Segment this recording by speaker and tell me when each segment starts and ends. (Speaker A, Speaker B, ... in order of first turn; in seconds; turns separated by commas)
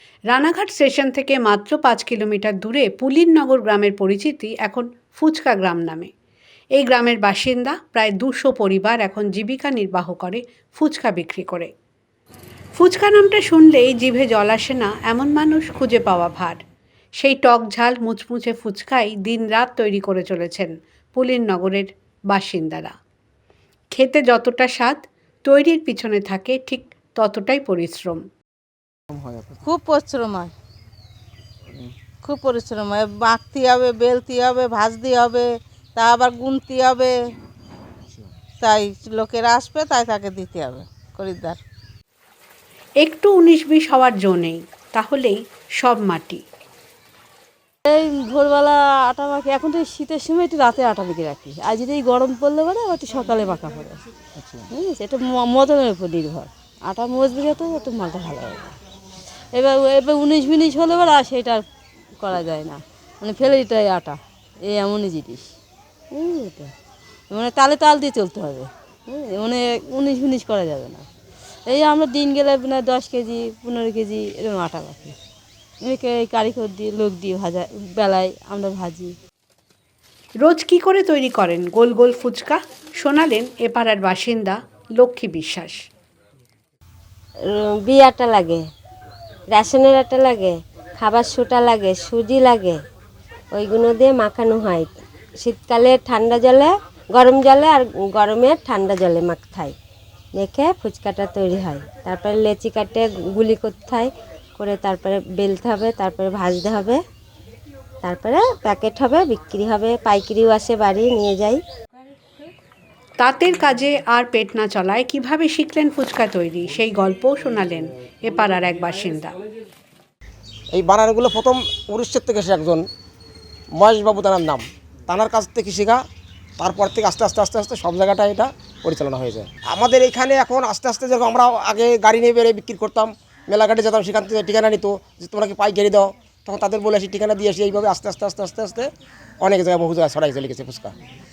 Speaker A: 0.3-6.1, Speaker A: 6.8-11.7, Speaker A: 12.8-16.6, Speaker A: 17.2-22.9, Speaker A: 23.9-28.2, Speaker B: 29.6-30.5, Speaker B: 32.2-37.1, Speaker B: 38.6-41.6, Speaker A: 43.0-46.4, Speaker C: 47.9-54.0, Speaker C: 54.7-58.8, Speaker C: 59.5-61.6, Speaker C: 62.2-65.5, Speaker C: 66.1-66.7, Speaker C: 67.3-71.0, Speaker C: 71.7-75.2, Speaker C: 75.8-79.1, Speaker A: 80.4-85.8, Speaker D: 87.5-88.6, Speaker D: 89.5-92.8, Speaker D: 93.5-99.7, Speaker D: 100.4-107.0, Speaker D: 108.0-111.6, Speaker A: 113.2-119.4, Speaker E: 120.7-122.8, Speaker E: 123.8-126.0, Speaker E: 126.6-140.9